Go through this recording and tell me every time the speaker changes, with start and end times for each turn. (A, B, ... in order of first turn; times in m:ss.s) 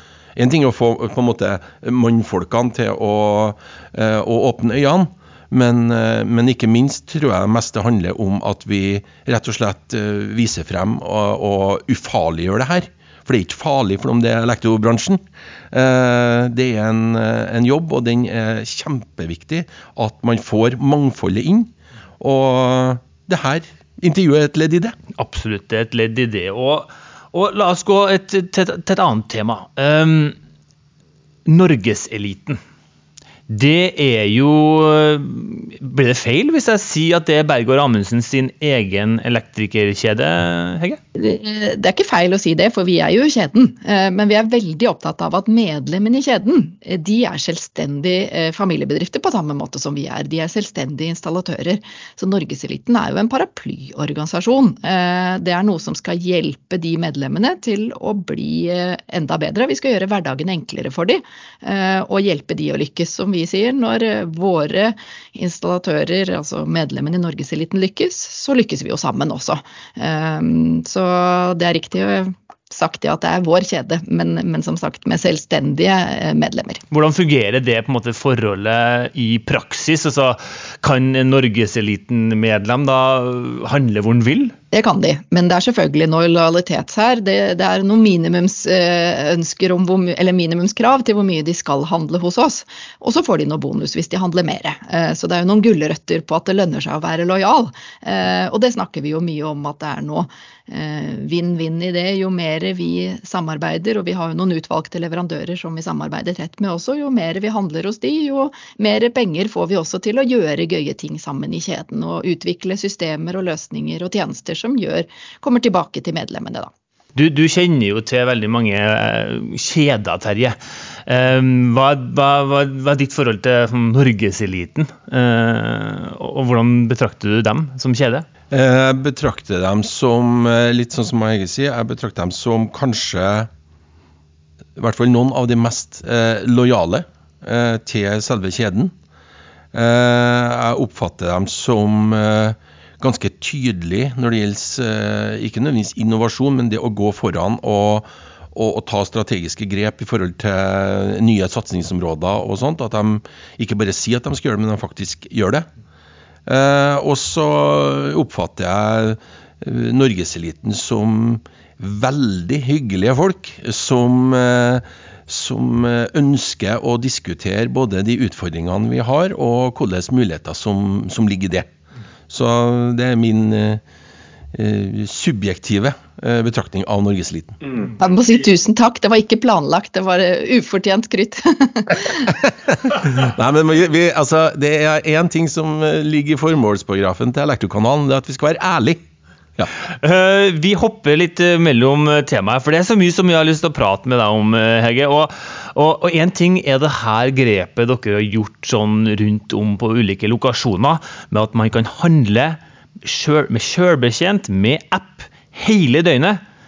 0:00.4-0:25.0 A
0:25.2-0:30.4 B
0:31.5-0:32.6 B
0:33.5-0:41.0 B
0:41.2-1:16.8 C
1:16.9-1:24.6 B
1:24.7-1:56.7 C
1:57.2-2:08.3 B
2:08.5-2:13.5 A
2:14.8-2:18.9 A
2:19.7-2:35.7 A
2:36.5-2:51.7 A
2:52.3-2:53.8 A
2:54.5-2:57.6 A
2:58.0-3:02.3 C
3:02.8-3:09.0 A
3:10.0-3:26.4 B